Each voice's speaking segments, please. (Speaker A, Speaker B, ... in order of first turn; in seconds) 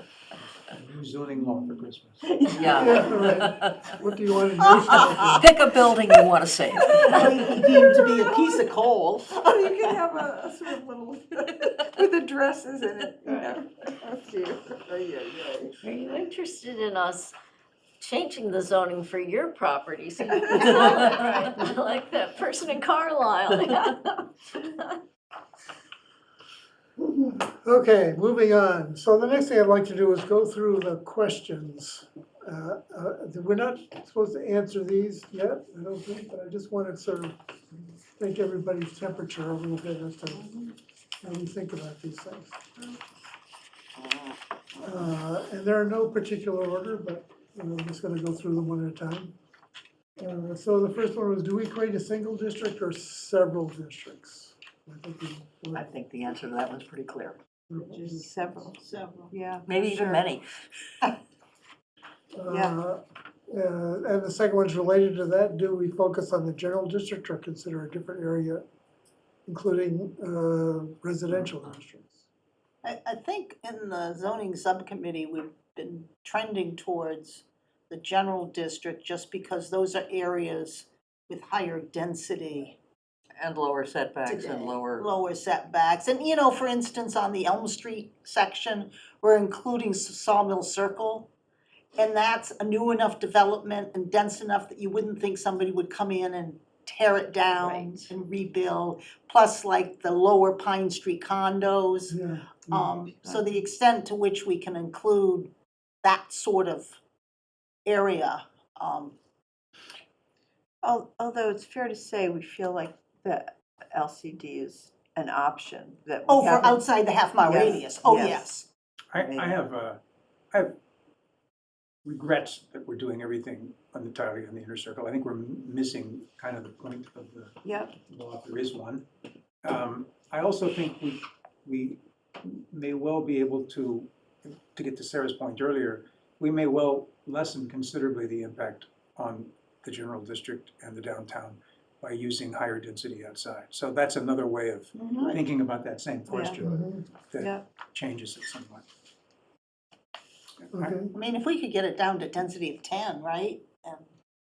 Speaker A: 0.7-2.9, 119.1-120.0, 122.0-127.6, 128.1-129.0, 129.6-148.8, 150.6-151.0
Speaker B: 2.5-3.9, 4.9-7.2, 20.8-21.2, 55.7-57.4, 59.6-60.5, 83.4-85.1
Speaker C: 2.7-5.5, 27.4-37.4, 38.2-40.5, 41.2-42.6, 44.8-49.3, 50.2-55.9, 57.7-58.2, 62.3-68.7, 69.5-72.2, 102.1-102.9, 146.6-147.0, 150.7-151.1
Speaker D: 4.6-5.5, 7.0-9.3, 58.8-59.3, 72.8-82.8, 84.2-91.3, 92.0-102.2, 102.7-105.5, 106.0-107.0, 107.8-109.2, 116.3-118.7, 151.1-154.1
Speaker E: 9.3-15.8, 57.8-60.2, 62.5-62.8, 97.5-98.1, 110.8-116.8, 117.4-118.5, 119.2-119.6, 127.6-127.9, 144.9-145.3, 146.3-146.6, 147.4-147.7
Speaker F: 13.2-13.6, 15.8-17.3, 18.0-25.0